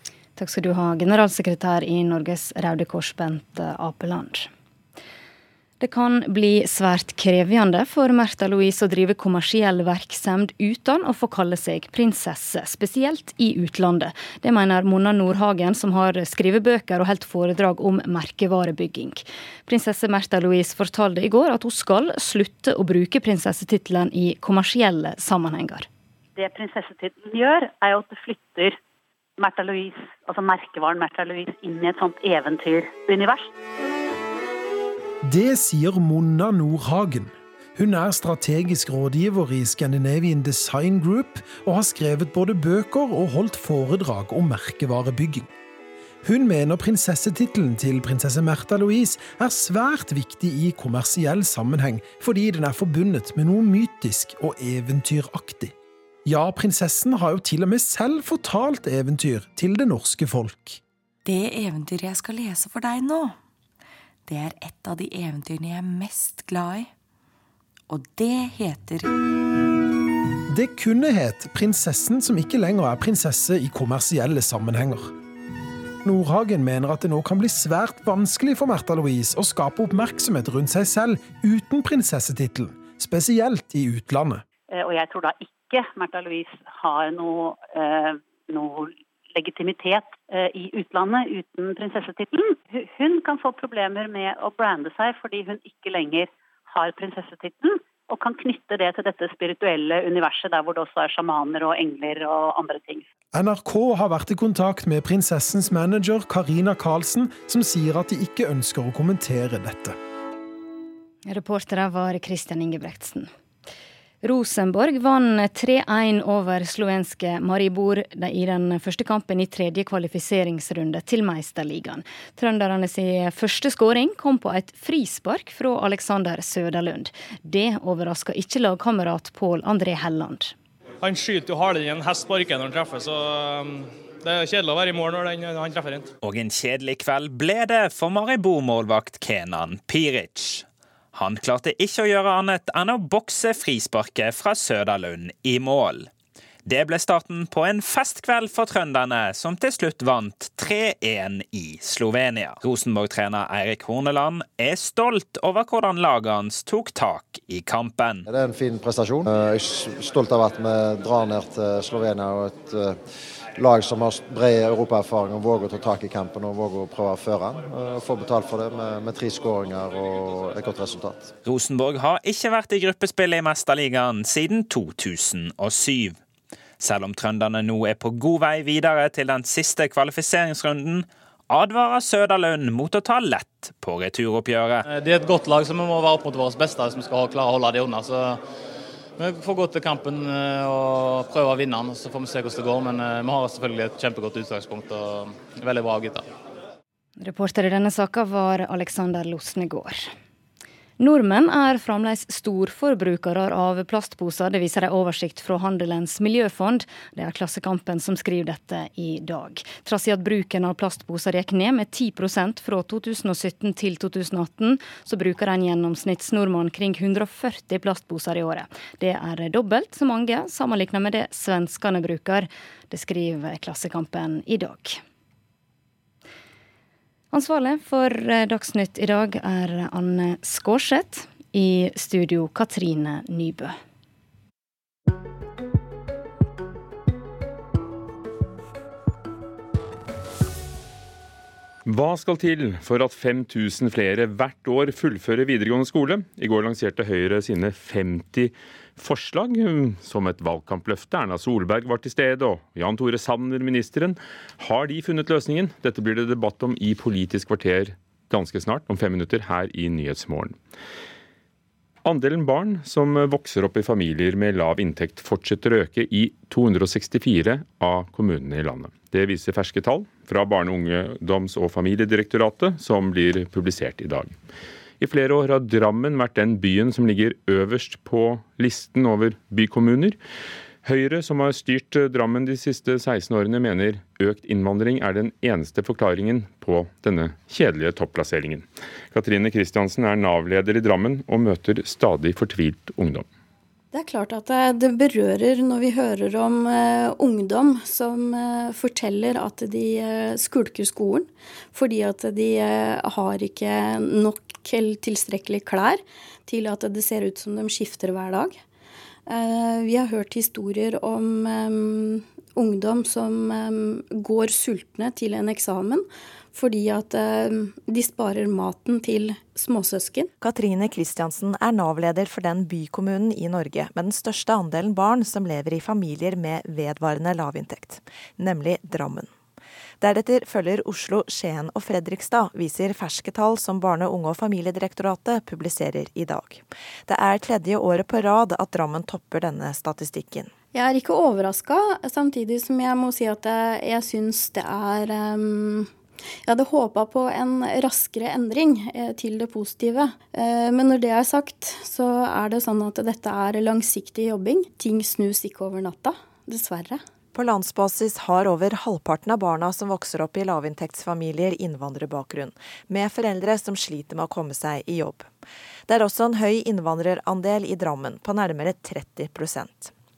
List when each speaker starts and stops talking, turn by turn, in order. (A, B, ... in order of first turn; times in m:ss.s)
0:00.4-0:04.5 A
0:05.8-0:25.9 A
0:26.4-0:28.8 B
0:29.4-0:33.5 B
0:35.2-0:45.5 C
0:46.2-0:55.7 C
0:56.2-1:00.8 C
1:01.2-1:03.4 D
1:04.3-1:06.9 D
1:07.9-1:09.1 D
1:10.5-1:15.1 C
1:16.0-1:24.4 C
1:24.7-1:43.0 B
1:43.3-1:50.0 C
1:51.3-1:53.3 A
1:54.2-2:10.5 A
2:11.0-2:16.1 E
2:16.2-2:26.1 F
2:26.6-2:38.2 F
2:38.3-2:42.8 G
2:43.6-2:51.3 G
2:51.4-2:56.2 F
2:56.8-3:04.8 F
3:04.9-3:08.4 E
3:09.2-3:16.3 E
3:17.2-3:20.1 A
3:21.0-3:45.0 A
3:47.3-3:53.8 A
4:01.9-4:20.6 H
4:22.0-4:34.3 H
4:35.0-4:40.2 H
4:40.8-4:53.2 H
4:53.9-5:08.6 I
5:09.3-5:20.3 I
5:20.4-5:29.3 J
5:30.0-5:40.5 J
5:40.7-5:45.9 I
5:46.5-5:57.0 I
5:57.3-6:05.3 J
6:05.9-6:09.9 J